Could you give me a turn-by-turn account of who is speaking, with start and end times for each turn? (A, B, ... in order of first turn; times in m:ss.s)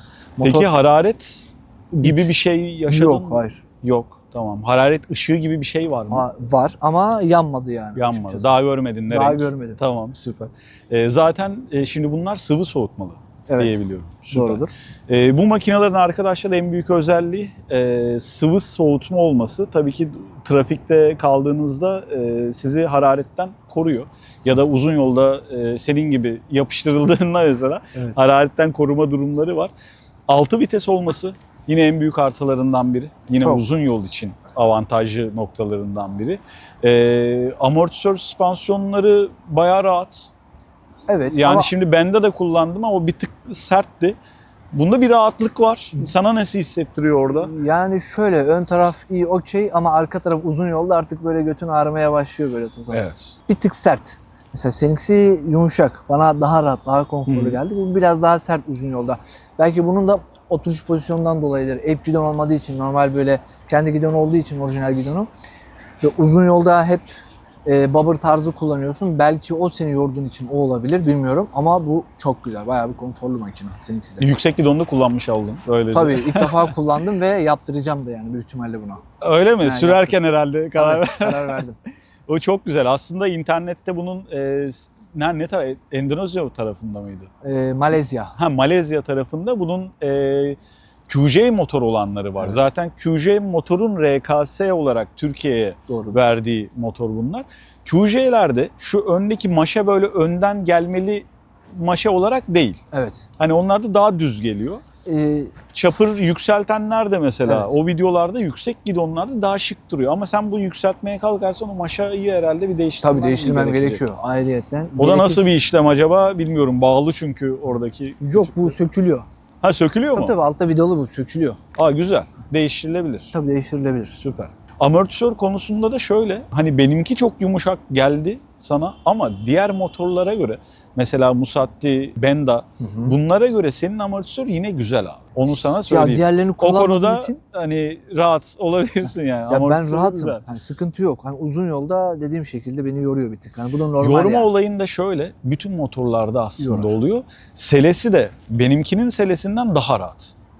0:00.4-0:00.7 A
0:00.4-0:06.2 B
0:02.0-0:02.3 A
0:02.9-0:03.6 A
0:06.1-0:08.5 A
0:08.0-0:29.7 B
0:09.1-0:09.8 A
0:13.5-0:14.7 A
0:30.3-0:40.3 B
0:33.4-0:33.6 A
0:41.1-0:41.7 A
0:41.2-0:44.2 B
0:44.7-0:47.5 B
0:47.3-1:05.3 A
0:52.9-0:53.4 B
0:57.3-0:57.6 B
1:06.0-1:07.1 A
1:07.6-1:14.3 A
1:14.2-1:16.8 B
1:15.9-1:19.0 A
1:19.2-1:21.6 B
1:19.6-1:20.2 A
1:20.7-1:21.8 A
1:22.3-1:27.3 B
1:27.4-1:28.3 A
1:28.4-1:42.8 B
1:35.9-1:36.2 A
1:42.9-1:43.2 A
1:43.4-1:44.8 B
1:45.0-1:45.6 A
1:45.7-1:54.0 B
1:47.5-1:47.7 A
1:53.0-1:55.5 A
1:55.0-1:58.8 B
1:58.2-1:59.3 A
1:59.6-2:00.3 B
2:00.1-2:01.6 A
2:01.8-2:03.3 B
2:03.3-2:04.2 A
2:04.2-2:20.4 B
2:12.8-2:13.1 A
2:15.5-2:17.4 A
2:19.5-2:24.5 A
2:24.0-2:30.3 B
2:26.6-2:27.0 A